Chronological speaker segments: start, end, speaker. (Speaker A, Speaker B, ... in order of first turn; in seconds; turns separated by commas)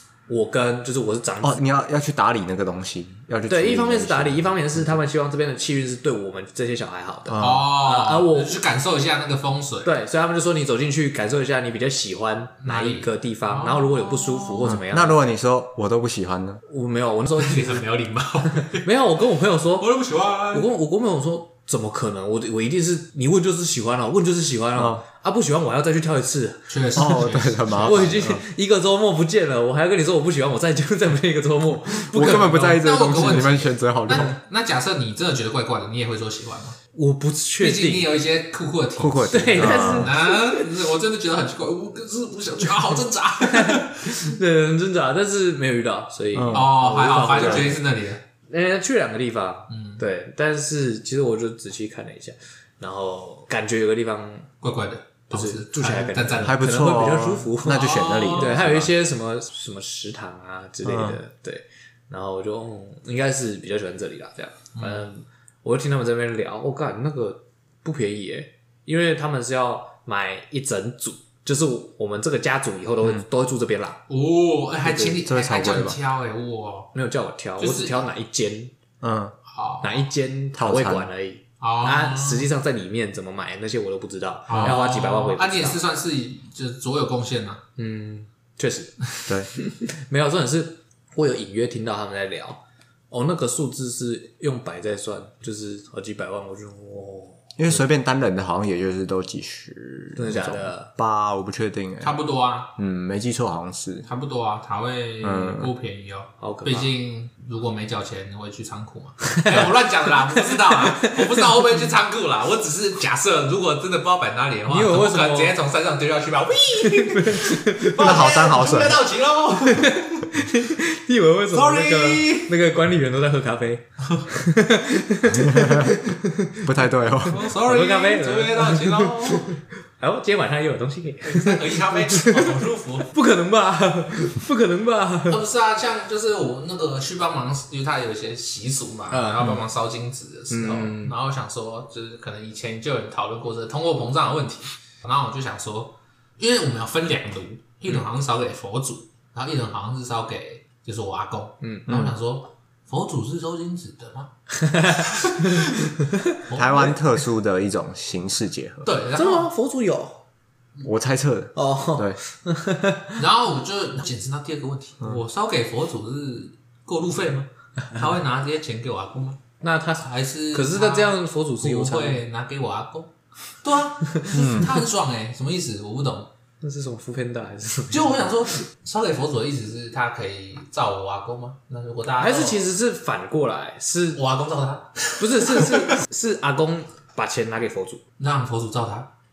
Speaker A: 0.3-1.6, Speaker B: 1.4-5.0, Speaker A: 3.5-8.6, Speaker B: 7.3-7.7, Speaker C: 7.4-9.9, Speaker A: 9.8-15.3, Speaker C: 12.6-14.7, Speaker B: 14.6-16.6, Speaker A: 16.6-17.8, Speaker C: 17.4-18.9, Speaker A: 18.6-19.9, Speaker C: 19.8-20.7, Speaker A: 20.5-27.1, Speaker B: 24.8-25.0, Speaker C: 26.7-28.1, Speaker B: 26.9-28.4, Speaker A: 27.8-32.9, Speaker B: 32.1-34.4, Speaker C: 32.1-36.8, Speaker A: 36.9-38.1, Speaker C: 37.6-44.3, Speaker B: 39.0-40.1, Speaker A: 39.3-40.7, Speaker A: 43.4-47.9, Speaker B: 46.3-46.8, Speaker C: 46.5-48.2, Speaker B: 47.3-47.7, Speaker A: 48.5-54.5, Speaker C: 49.7-50.0, Speaker C: 54.6-56.7, Speaker A: 55.3-74.0, Speaker B: 56.4-58.9, Speaker C: 57.6-58.5, Speaker B: 60.8-61.2, Speaker C: 64.8-65.0, Speaker C: 74.1-76.9, Speaker A: 74.8-75.2, Speaker B: 75.2-76.0, Speaker A: 76.9-78.7, Speaker C: 77.6-78.0, Speaker B: 79.0-79.3, Speaker C: 79.5-80.0, Speaker A: 79.8-85.8, Speaker B: 80.5-81.1, Speaker C: 81.6-82.5, Speaker C: 84.5-87.6, Speaker B: 84.5-84.8, Speaker A: 87.8-97.8, Speaker B: 97.6-102.2, Speaker A: 100.2-100.9, Speaker C: 102.0-102.7, Speaker B: 102.8-104.1, Speaker C: 104.0-120.2, Speaker B: 105.2-105.7, Speaker A: 106.4-106.9, Speaker A: 110.7-111.4, Speaker A: 114.7-115.5, Speaker A: 116.8-118.3, Speaker B: 118.0-119.0, Speaker A: 119.6-126.7, Speaker C: 121.5-122.5, Speaker B: 125.3-126.0, Speaker B: 126.6-127.5, Speaker C: 127.3-129.5, Speaker A: 127.3-135.4, Speaker C: 131.2-133.1, Speaker C: 135.3-154.3, Speaker A: 139.1-139.6, Speaker A: 140.5-141.2, Speaker A: 151.6-151.9, Speaker B: 151.9-152.2, Speaker A: 154.5-156.2, Speaker C: 155.0-155.7, Speaker C: 156.5-157.0, Speaker B: 156.5-158.9, Speaker C: 158.8-159.5, Speaker A: 159.1-160.2, Speaker B: 160.8-162.2, Speaker A: 161.6-163.2, Speaker C: 163.2-169.4, Speaker A: 169.6-172.2, Speaker C: 170.0-173.1, Speaker C: 173.6-176.3, Speaker A: 174.0-174.7, Speaker B: 174.3-174.7, Speaker A: 176.6-178.6, Speaker C: 177.9-182.6, Speaker A: 182.2-184.2, Speaker C: 184.2-185.9, Speaker A: 185.2-188.0, Speaker C: 188.2-189.1